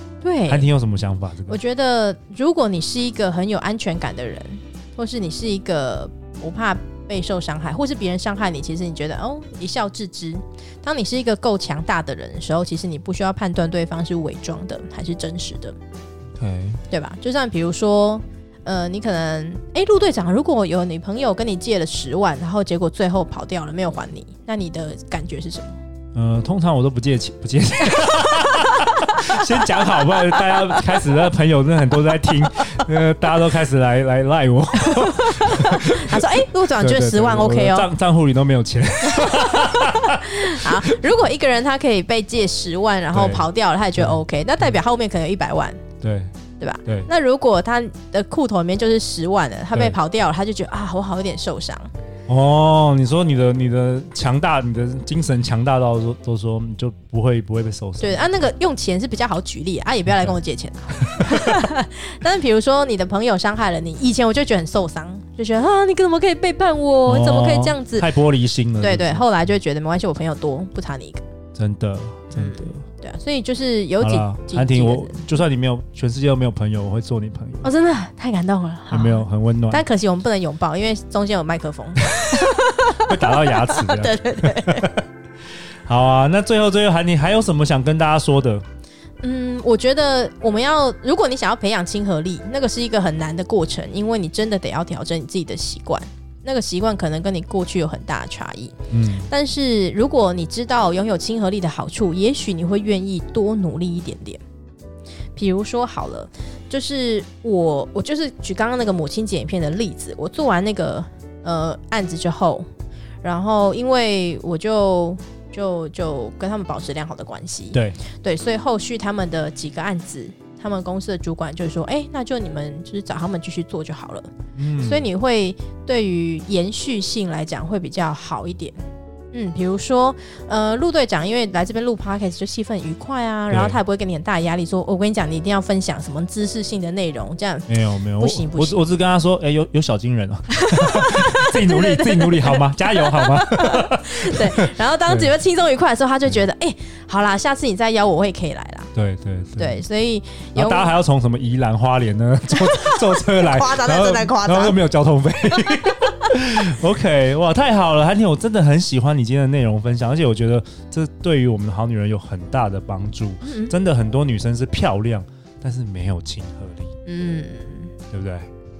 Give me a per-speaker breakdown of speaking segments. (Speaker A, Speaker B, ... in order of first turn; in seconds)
Speaker A: 0.2-0.7, 1.5-15.7, 16.9-25.8, 28.4-28.8, 29.5-31.0, 34.8-37.9, 39.1-45.8, 46.6-51.9, 58.0-68.1, 68.8-71.2, 72.3-75.2, 77.6-84.9, 89.2-98.7, 99.3-104.4, 105.3-112.7, 113.2-124.3, 124.8-128.8, 129.3-138.8, 140.5-148.9, 149.6-150.9, 152.5-154.8, 163.4-163.7, 167.1-167.9
Speaker B: 0.5-1.6, 16.3-16.8, 26.1-41.0, 43.1-44.8, 46.0-46.3, 46.8-47.1, 52.3-58.4, 61.0-61.5, 67.0-69.2, 71.5-72.8, 74.0-77.7, 78.9-79.8, 82.9-85.0, 85.8-88.6, 98.9-99.3, 117.7-118.0, 124.5-125.1, 133.5-133.8, 137.7-145.3, 148.9-149.8, 150.5-166.9, 168.1-168.5